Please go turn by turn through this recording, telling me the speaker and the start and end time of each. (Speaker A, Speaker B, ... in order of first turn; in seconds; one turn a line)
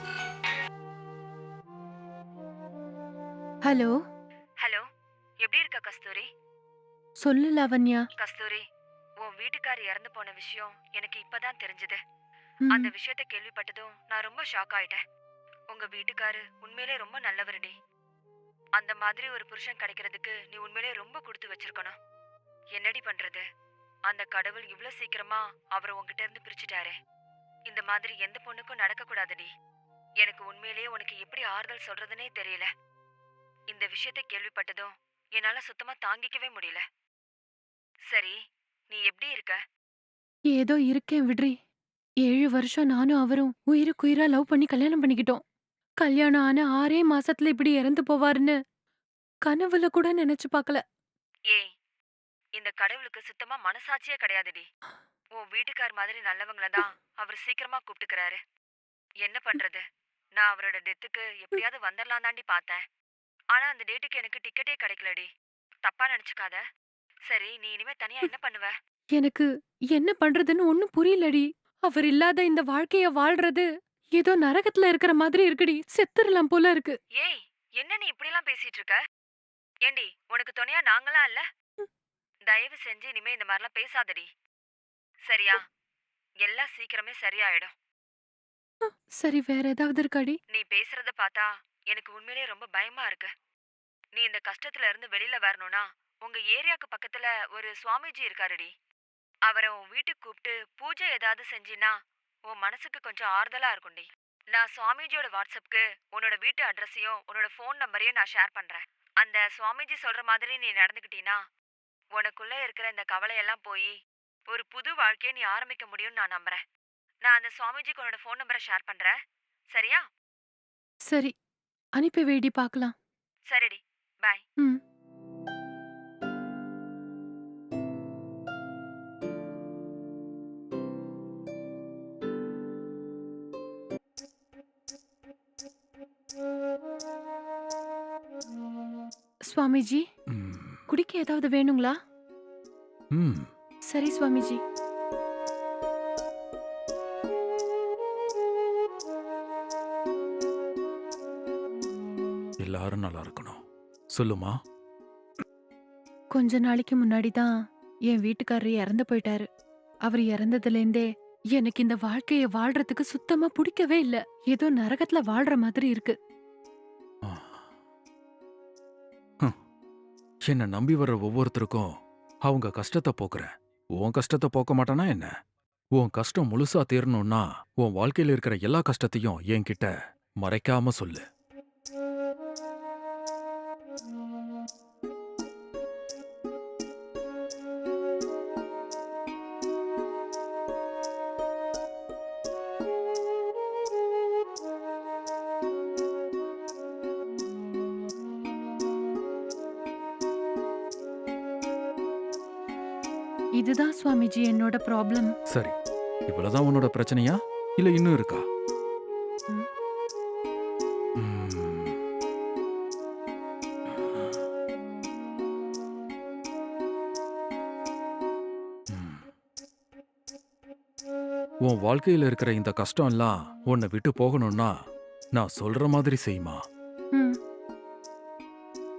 Speaker A: 3.6-3.9
Speaker B: 5.4-6.3
Speaker A: 7.2-8.0
Speaker B: 8.2-8.6
Speaker B: 9.2-12.0
Speaker A: 12.7-12.9
Speaker B: 12.7-15.0
Speaker B: 15.7-17.8
Speaker B: 18.8-21.9
Speaker B: 22.8-23.4
Speaker B: 24.1-26.9
Speaker B: 27.7-29.5
Speaker B: 30.2-32.7
Speaker B: 33.7-36.8
Speaker B: 38.1-38.4
Speaker B: 38.9-39.6
Speaker A: 40.5-41.5
Speaker A: 42.2-45.4
Speaker A: 46.0-48.5
Speaker A: 49.5-50.8
Speaker B: 52.6-54.7
Speaker B: 55.4-58.4
Speaker B: 59.2-59.8
Speaker B: 60.4-62.8
Speaker B: 63.5-65.3
Speaker B: 65.8-66.6
Speaker B: 67.3-68.7
Speaker A: 69.2-73.7
Speaker A: 74.2-77.0
Speaker B: 77.2-79.0
Speaker B: 79.9-81.4
Speaker B: 82.5-84.3
Speaker B: 85.3-85.6
Speaker B: 86.4-87.7
Speaker A: 88.9-90.4
Speaker B: 90.5-93.3
Speaker B: 94.2-98.7
Speaker B: 99.5-101.9
Speaker B: 102.5-111.4
Speaker B: 112.2-113.9
Speaker B: 114.5-116.6
Speaker B: 117.2-119.1
Speaker B: 119.7-120.0
Speaker A: 122.0-122.9
Speaker B: 123.5-124.4
Speaker A: 139.5-140.0
Speaker C: 140.3-140.8
Speaker A: 140.9-141.9
Speaker C: 143.1-143.5
Speaker A: 143.9-144.6
Speaker C: 152.6-153.6
Speaker C: 154.1-154.6
Speaker A: 156.3-157.5
Speaker A: 158.1-159.5
Speaker A: 160.1-166.2
Speaker C: 167.2-167.7
Speaker C: 170.5-171.9
Speaker C: 172.4-175.3
Speaker C: 176.0-179.9
Speaker C: 180.4-181.2
Speaker A: 203.6-205.3
Speaker C: 206.3-208.4
Speaker C: 211.2-212.0
Speaker C: 214.0-214.3
Speaker C: 218.9-219.3
Speaker C: 221.6-224.7
Speaker C: 225.4-226.6